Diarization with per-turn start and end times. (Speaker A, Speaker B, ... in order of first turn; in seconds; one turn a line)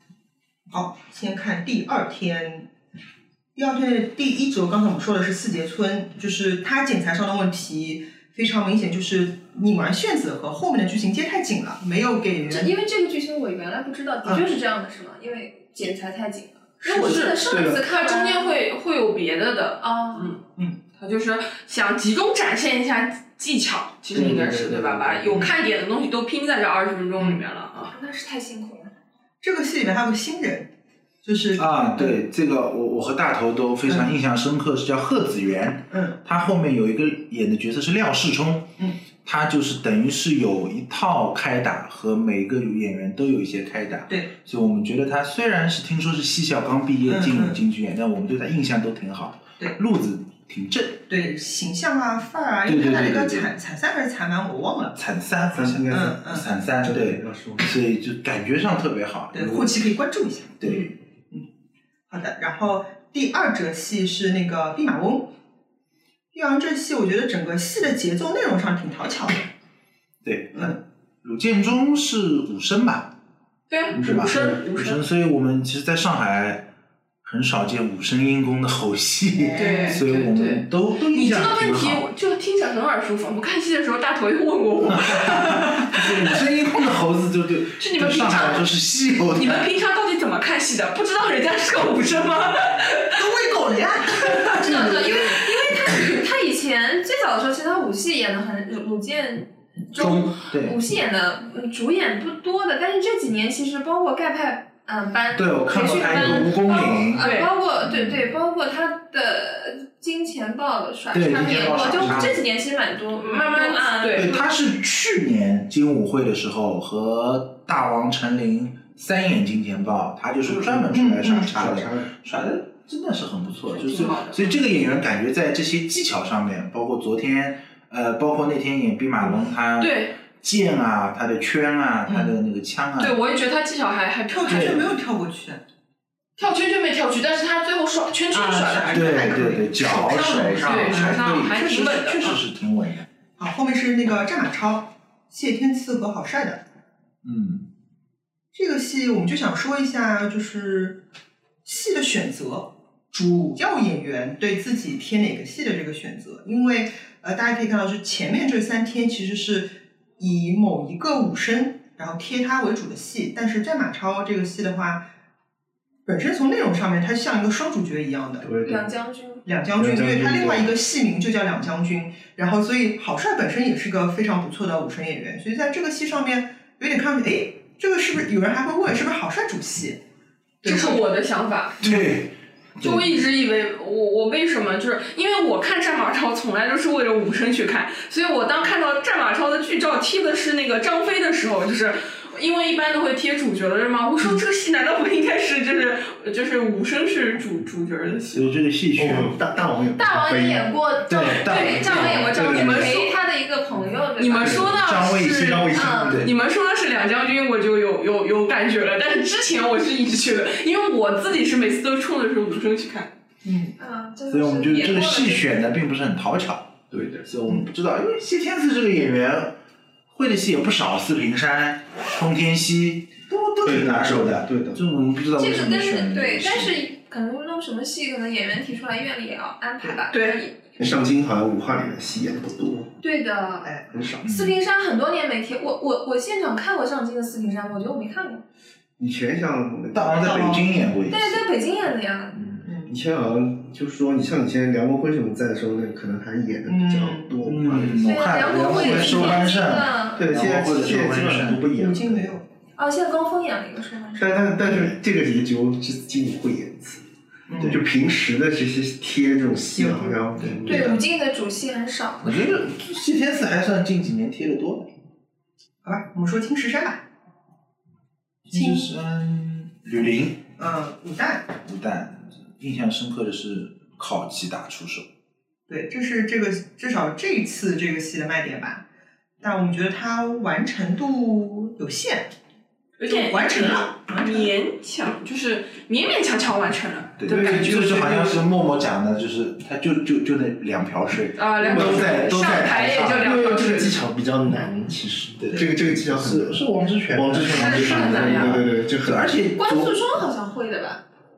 Speaker A: 0.7-2.7
Speaker A: 3.5-12.7
Speaker B: 12.5-18.6
Speaker C: 16.8-20.4
Speaker A: 16.9-17.2
Speaker D: 17.5-17.8
Speaker B: 19.8-20.4
Speaker C: 21.0-27.9
Speaker D: 24.1-25.5
Speaker A: 27.2-27.4
Speaker B: 27.9-28.9
Speaker A: 29.4-30.7
Speaker A: 31.2-32.2
Speaker E: 31.6-51.0
Speaker A: 35.9-36.2
Speaker A: 47.0-47.6
Speaker A: 51.1-55.0
Speaker E: 52.6-53.5
Speaker E: 54.9-59.7
Speaker D: 55.5-57.7
Speaker A: 55.9-56.4
Speaker A: 59.3-61.4
Speaker E: 60.6-60.9
Speaker A: 62.1-65.3
Speaker A: 66.3-69.5
Speaker E: 70.2-73.1
Speaker C: 73.7-75.0
Speaker E: 73.9-76.7
Speaker E: 77.2-82.0
Speaker A: 79.3-80.0
Speaker C: 79.5-86.4
Speaker E: 84.8-89.7
Speaker C: 87.8-88.7
Speaker C: 89.3-93.2
Speaker A: 93.2-95.2
Speaker C: 94.2-96.0
Speaker B: 94.5-114.3
Speaker E: 100.0-100.8
Speaker E: 105.3-107.2
Speaker C: 107.2-107.5
Speaker E: 107.8-108.3
Speaker E: 111.1-112.4
Speaker C: 113.2-114.4
Speaker E: 114.1-133.2
Speaker D: 120.5-122.1
Speaker A: 120.9-121.5
Speaker C: 123.7-124.4
Speaker C: 129.8-130.1
Speaker A: 132.1-132.3
Speaker C: 133.0-134.8
Speaker A: 134.3-135.6
Speaker E: 134.5-134.8
Speaker C: 136.4-139.3
Speaker A: 138.3-141.8
Speaker E: 138.7-143.1
Speaker C: 139.9-142.4
Speaker A: 143.4-146.6
Speaker E: 147.2-147.7
Speaker A: 148.5-151.0
Speaker A: 151.6-165.0
Speaker A: 166.1-168.4
Speaker D: 168.4-168.8
Speaker B: 168.6-169.4
Speaker A: 169.4-180.0
Speaker D: 169.8-170.7
Speaker A: 180.6-181.0
Speaker C: 180.6-181.9
Speaker E: 181.8-183.1
Speaker C: 182.8-198.5
Speaker E: 198.3-199.3
Speaker D: 198.9-200.7
Speaker B: 199.9-204.7
Speaker E: 201.0-202.9
Speaker C: 201.2-203.1
Speaker C: 204.2-213.1
Speaker D: 204.4-204.8
Speaker E: 204.7-206.3
Speaker D: 205.5-206.3
Speaker B: 205.7-206.2
Speaker A: 213.4-213.7
Speaker B: 213.8-215.6
Speaker E: 214.3-219.6
Speaker E: 220.1-226.8
Speaker D: 223.6-224.8
Speaker B: 225.3-230.6
Speaker C: 230.1-230.4
Speaker D: 230.8-232.9
Speaker B: 233.0-238.4
Speaker A: 233.6-234.0
Speaker D: 233.9-234.2
Speaker E: 234.2-234.5
Speaker D: 239.0-240.8
Speaker E: 239.9-241.4
Speaker A: 240.2-240.8
Speaker B: 241.1-242.6
Speaker D: 242.4-249.2
Speaker A: 242.6-242.9
Speaker A: 246.7-247.3
Speaker E: 247.4-251.6
Speaker B: 248.0-250.2
Speaker D: 250.2-252.4
Speaker A: 251.7-252.4
Speaker B: 252.8-254.2
Speaker D: 254.1-257.0
Speaker E: 254.7-254.9
Speaker A: 257.5-257.8
Speaker D: 257.6-261.0
Speaker A: 259.8-260.6
Speaker E: 260.4-261.0
Speaker B: 260.7-262.6
Speaker E: 262.2-264.9
Speaker A: 265.8-267.0
Speaker A: 268.5-268.9
Speaker E: 268.5-270.4
Speaker A: 270.6-271.5
Speaker E: 271.6-275.1
Speaker A: 275.7-278.8
Speaker A: 279.4-282.3
Speaker C: 283.0-288.4
Speaker A: 283.0-284.5
Speaker E: 287.2-293.5
Speaker C: 291.4-294.0
Speaker D: 291.7-292.1
Speaker D: 293.2-299.4
Speaker E: 295.4-300.1
Speaker C: 297.5-298.5
Speaker B: 297.5-298.5
Speaker B: 299.6-301.0